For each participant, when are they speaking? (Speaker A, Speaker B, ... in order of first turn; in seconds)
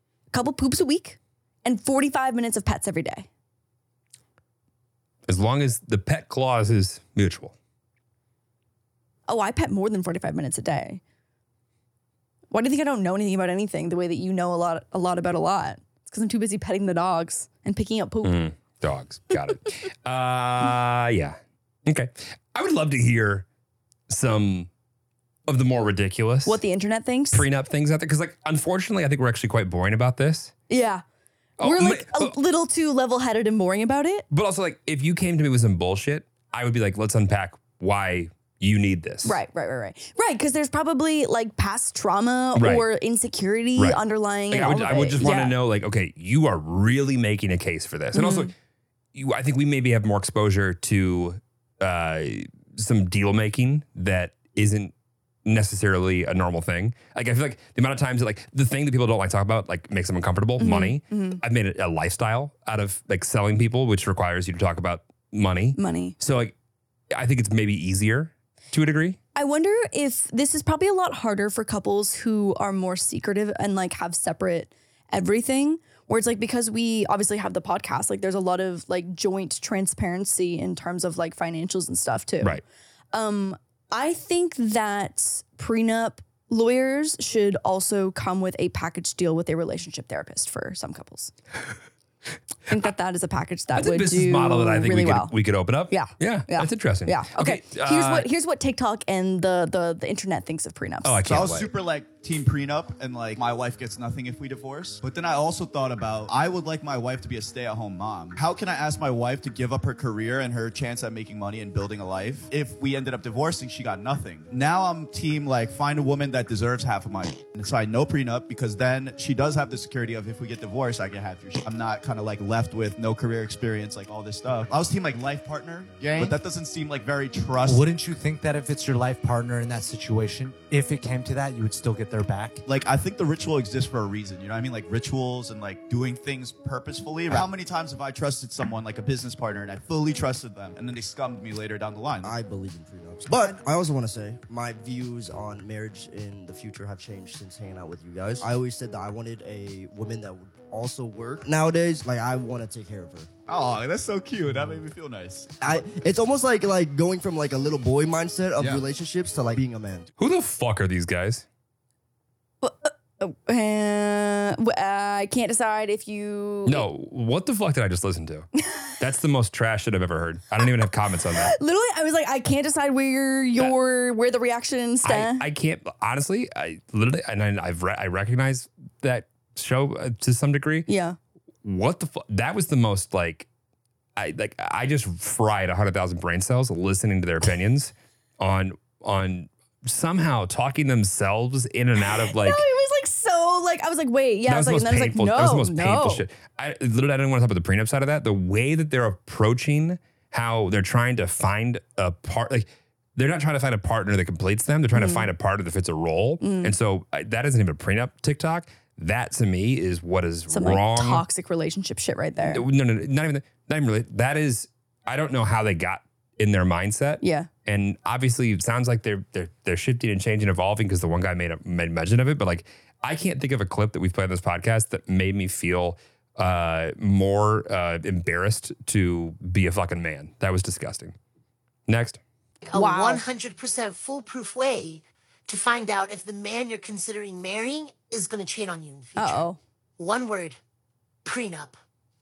Speaker A: 0.3-3.3, 9.3-11.0, 12.5-18.4, 26.4-27.4, 30.7-31.0, 31.6-34.2, 39.2-45.5, 48.1-48.5, 60.6-61.4, 65.8-66.2, 69.3-82.6, 83.1-91.3, 92.7-95.3, 95.9-101.3, 162.6-166.8, 171.4-175.4, 180.9-181.2, 192.0-196.2, 204.9-205.3, 206.4-206.7, 210.5-212.6, 217.2-217.5, 232.7-233.2, 239.2-239.6
Speaker B: 5.3-7.5, 18.2-23.4, 24.1-24.7, 25.5-26.6, 27.3-30.5, 31.6-32.3, 34.3-39.4, 42.5-42.9, 43.8-48.5, 49.1-54.9, 55.4-66.5, 67.1-69.2, 93.7-98.3, 101.0-101.7, 160.2-161.4, 166.7-171.5, 175.0-180.9, 181.6-183.5, 184.2-192.6, 194.5-211.2, 212.4-231.1, 231.9-232.2
Speaker C: 101.2-127.9, 132.7-142.3, 153.5-155.5
Speaker D: 127.6-132.6
Speaker E: 142.2-153.3, 155.6-160.1
Speaker F: 232.6-239.4, 240.0-240.6, 241.2-241.8